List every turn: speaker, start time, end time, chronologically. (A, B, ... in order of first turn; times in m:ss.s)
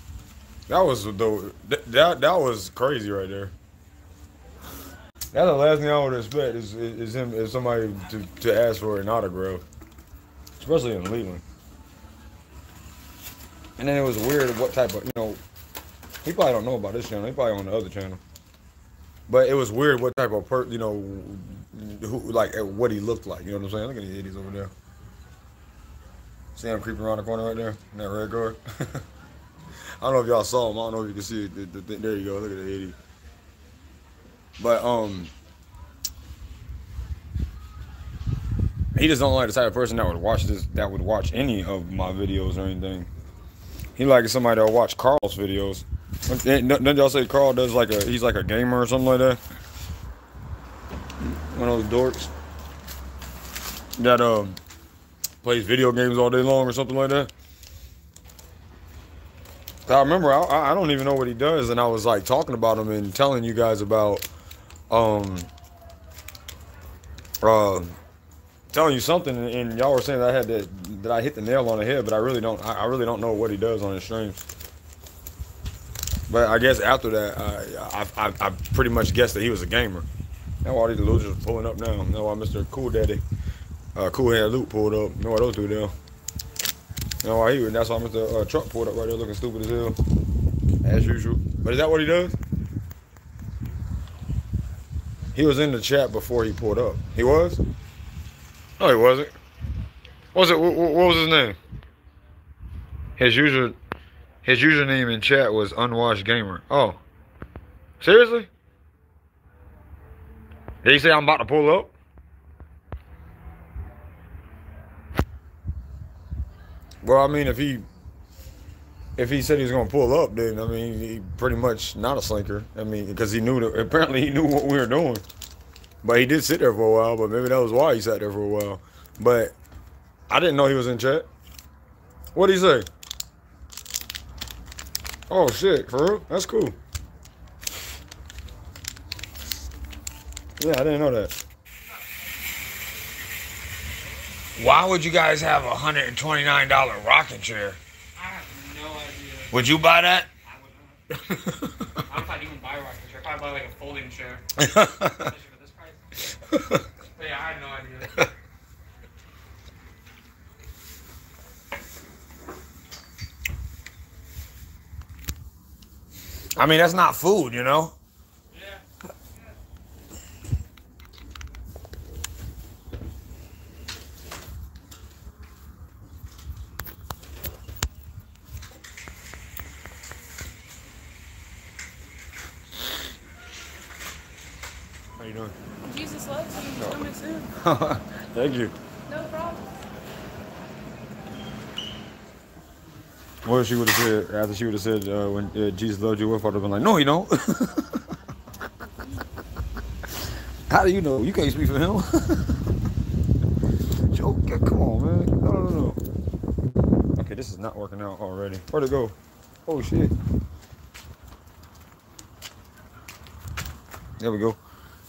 0:00.7-0:03.5 A
0:05.3-0:09.6 A
0:10.6-0:11.4 A
0:13.8-0:15.4 A
0:16.2-0:18.2 A
0:19.3-0:24.7 A
0:26.6-0:29.0 A
0:30.0-0:33.0 A
0:34.6-0:35.3 A
0:39.0-0:43.1 A
0:44.0-0:49.4 A
0:51.2-0:52.3 A
0:54.0-0:54.6 A
0:55.4-0:57.3 A
0:59.9-1:04.3 A
1:04.9-1:05.5 A
1:07.4-1:08.0 A
1:08.7-1:14.4 A
1:16.3-1:20.1 A
1:20.6-1:23.2 A
1:24.0-1:25.9 A
1:27.2-1:30.0 A
1:30.8-1:32.4 A
1:35.4-1:37.6 A
1:38.8-1:39.4 A
1:40.3-1:41.6 A
1:43.2-1:43.8 A
1:44.4-1:47.0 A
1:48.0-1:48.5 A
1:50.8-1:51.9 A
1:57.0-1:57.8 A
1:59.2-2:05.2 A
2:06.0-2:09.6 A
2:10.3-2:11.3 A
2:12.4-2:12.9 A
2:15.3-2:16.8 A
2:20.6-2:21.3 A
2:24.6-2:27.8 A
2:28.2-2:29.5 B
2:29.5-2:30.3 A
2:30.4-2:31.0 B
2:31.3-2:31.6 A
2:32.1-2:34.4 B
2:34.6-2:35.3 A
2:35.0-2:36.0 B
2:37.1-2:38.2 B
2:46.6-2:47.9 A
3:05.2-3:05.5 A
3:05.8-3:07.5 C
3:06.8-3:08.7 A
3:09.1-3:09.6 C
3:13.4-3:18.0 A
3:20.7-3:22.6 A
3:24.1-3:26.0 A
3:27.2-3:29.2 A
3:29.7-3:30.1 A
3:34.2-3:34.6 A